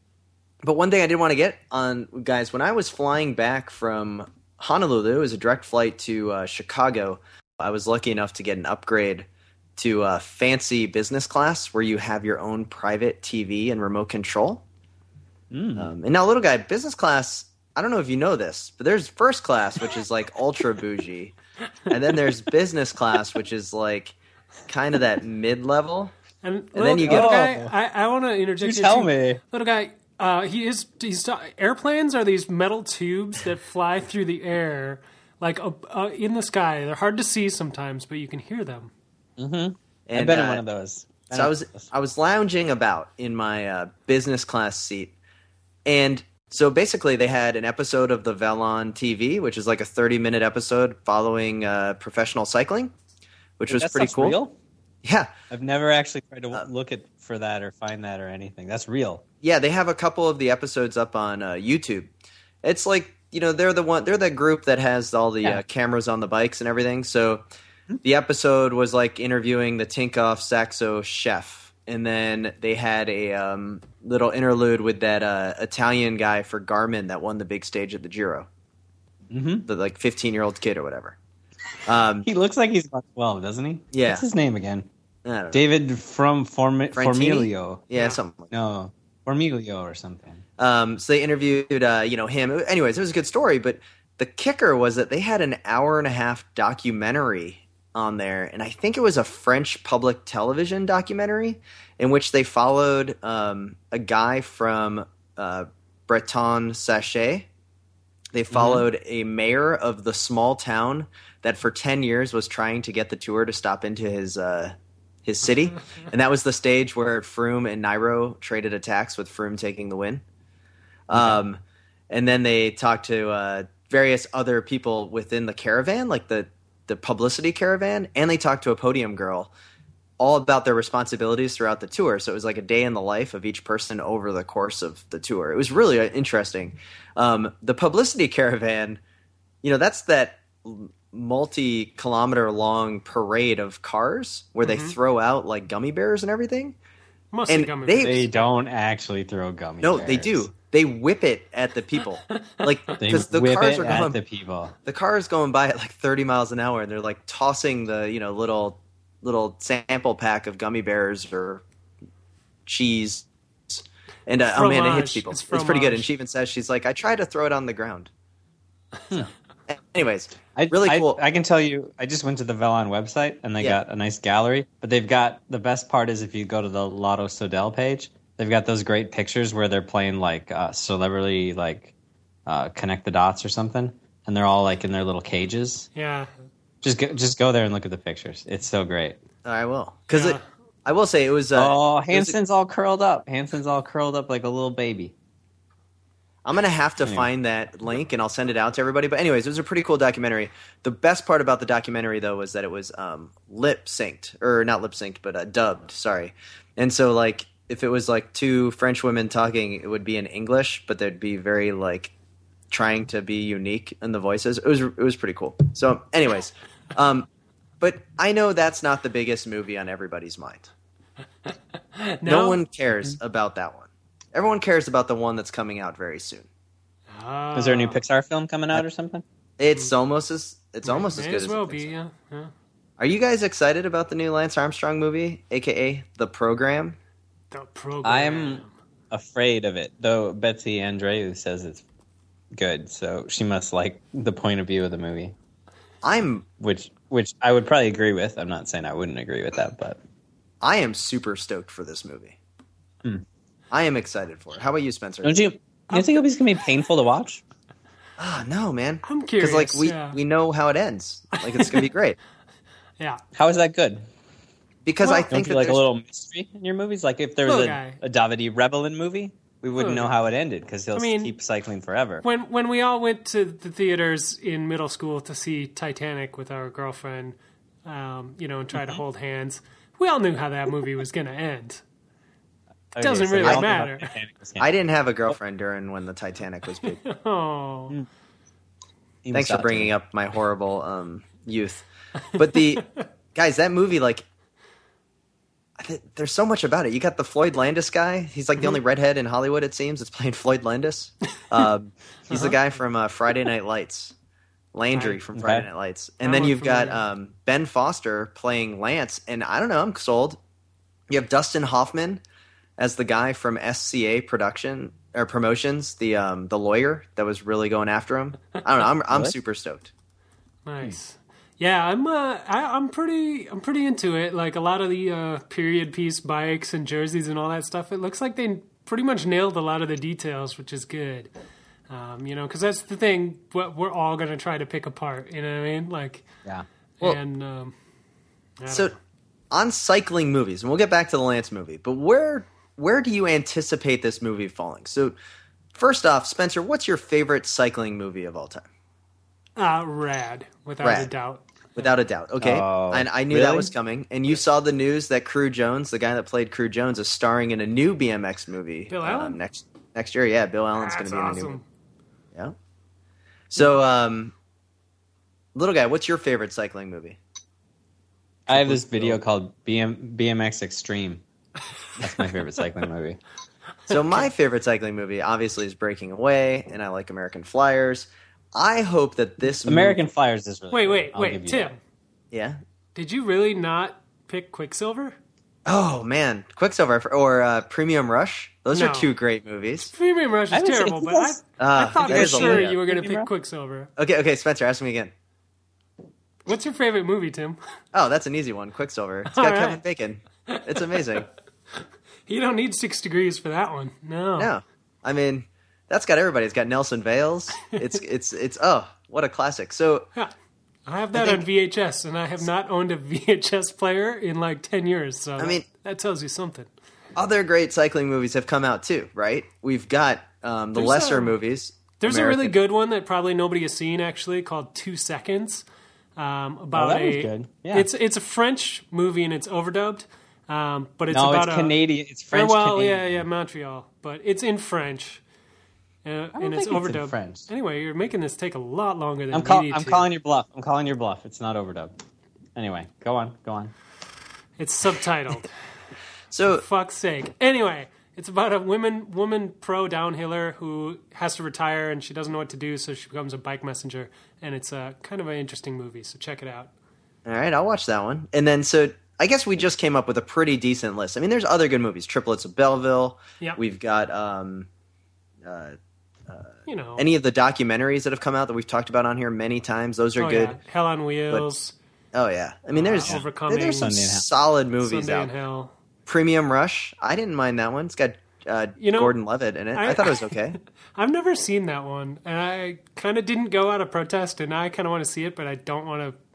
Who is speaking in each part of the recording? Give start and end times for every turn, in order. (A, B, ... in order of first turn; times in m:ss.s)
0:00.6-0:14.6 A
0:15.5-0:15.9 B
0:15.8-0:21.3 A
0:21.9-0:24.2 A
0:24.7-0:26.1 A
0:26.4-0:38.9 C
0:26.7-0:27.5 A
0:27.0-0:27.7 B
0:28.6-0:29.4 B
0:39.4-0:41.9 B
0:40.1-0:40.6 A
0:41.3-0:45.1 A
0:45.8-0:52.9 A
0:53.6-0:54.4 A
0:53.7-0:54.6 B
0:55.0-0:55.3 A
0:55.5-0:59.2 B
0:59.4-1:02.1 A
1:02.6-1:07.4 A
1:08.0-1:18.5 A
1:19.3-1:19.7 B
1:19.6-1:21.2 A
1:21.8-1:22.3 A
1:22.2-1:24.9 B
1:23.9-1:24.2 A
1:25.2-1:25.6 A
1:25.5-1:27.8 B
1:26.9-1:28.5 A
1:27.9-1:28.2 C
1:28.5-1:30.4 B
1:30.6-1:47.5 A
1:48.3-2:00.2 A
1:48.5-1:48.8 B
2:01.1-2:09.5 A
2:01.1-2:01.4 B
2:10.2-2:19.0 A
2:19.6-2:26.8 A
2:24.6-2:25.0 C
2:27.3-2:28.5 C
2:27.5-2:28.2 A
2:28.0-2:30.4 B
2:29.8-2:34.2 A
2:32.3-2:32.6 C
2:33.0-2:34.7 B
2:34.8-2:41.6 A
2:42.6-2:48.1 A
2:44.5-2:46.1 C
2:49.7-2:51.2 A
2:50.6-3:01.9 B
3:02.4-3:05.9 B
3:06.0-3:06.3 C
3:06.8-3:09.2 B
3:09.4-3:12.4 A
3:10.1-3:10.4 C
3:11.6-3:15.1 B
3:16.4-3:32.1 A
3:17.0-3:17.3 B
3:32.7-3:37.3 A
3:37.8-3:40.7 A
3:41.5-3:42.6 C
3:42.2-3:46.5 A
3:47.1-3:48.0 C
3:47.5-3:49.2 B
3:49.6-3:51.9 A
3:50.8-3:52.5 C
3:53.0-3:57.0 A
3:57.5-3:58.7 C
3:58.0-4:01.8 B
4:02.5-4:05.3 B
4:06.0-4:06.4 A
4:06.6-4:10.0 B
4:10.6-4:12.4 A
4:13.7-4:15.4 A
4:15.2-4:17.4 B
4:18.2-4:22.2 A
4:19.0-4:20.2 C
4:21.4-4:21.8 C
4:23.3-4:24.1 B
4:24.8-4:25.8 A
4:25.0-4:25.3 C
4:25.3-4:32.2 B
4:27.4-4:28.0 C
4:29.8-4:30.1 C
4:30.9-4:31.3 C
4:32.2-4:41.8 C
4:38.7-4:39.0 B
4:42.9-4:44.7 B
4:43.0-4:44.1 C
4:44.6-4:47.0 A
4:46.9-4:48.0 C
4:49.2-4:49.9 B
4:49.3-4:51.8 A
4:52.4-4:54.2 A
4:52.8-4:53.0 C
4:55.8-5:04.1 A
5:02.3-5:02.6 C
5:04.7-5:10.4 A
5:04.9-5:05.2 C
5:05.3-5:05.7 B
5:06.2-5:07.0 C
5:11.1-5:12.2 A
5:12.8-5:19.9 A
5:19.1-5:19.3 B
5:20.6-5:31.3 C
5:31.9-5:36.3 C
5:37.0-5:37.7 C
5:38.6-5:39.0 C
5:39.5-5:45.2 A
5:45.7-5:48.6 A
5:49.6-5:51.9 C
5:50.8-5:51.1 A
5:51.8-6:01.6 A
5:52.4-5:53.7 B
5:58.9-5:59.4 C
6:00.8-6:01.6 C
6:03.5-6:04.3 A
6:05.5-6:07.2 A
6:08.5-6:09.2 A
6:08.5-6:11.2 B
6:12.0-6:13.2 B
6:13.9-6:20.0 A
6:13.9-6:14.3 C
6:19.6-6:21.7 B
6:20.7-6:21.8 C
6:22.3-6:22.6 A
6:22.9-6:25.2 C
6:25.6-6:29.9 A
6:28.7-6:29.1 C
6:29.9-6:33.9 C
6:30.5-6:31.4 B
6:31.6-6:32.7 A
6:32.0-6:33.3 B
6:34.0-6:35.1 A
6:36.4-6:37.6 C
6:37.9-6:41.3 A
6:39.3-6:39.8 C
6:42.3-6:44.5 C
6:44.4-6:50.1 A
6:50.8-6:56.7 C
6:51.1-6:51.4 A
6:55.4-6:55.6 A
6:57.2-7:02.5 A
7:00.7-7:01.3 C
7:02.0-7:05.6 C
7:06.2-7:11.8 C
7:06.7-7:07.9 B
7:11.1-7:13.2 B
7:12.3-7:15.2 C
7:16.0-7:20.1 C
7:16.3-7:17.4 B
7:19.3-7:21.9 B
7:22.5-7:23.7 B
7:24.6-7:25.5 C
7:26.3-7:26.6 A
7:26.5-7:36.7 C
7:37.2-7:44.7 A
7:45.4-7:45.8 A
7:46.3-7:50.6 A
7:46.6-7:47.1 C
7:50.2-7:51.7 C
7:52.1-7:55.3 A
7:52.7-7:54.0 C
7:53.8-7:54.2 B
7:54.8-7:55.7 C
7:56.0-8:00.6 A
7:58.8-7:59.1 C
7:59.7-8:00.3 C
8:00.9-8:06.2 C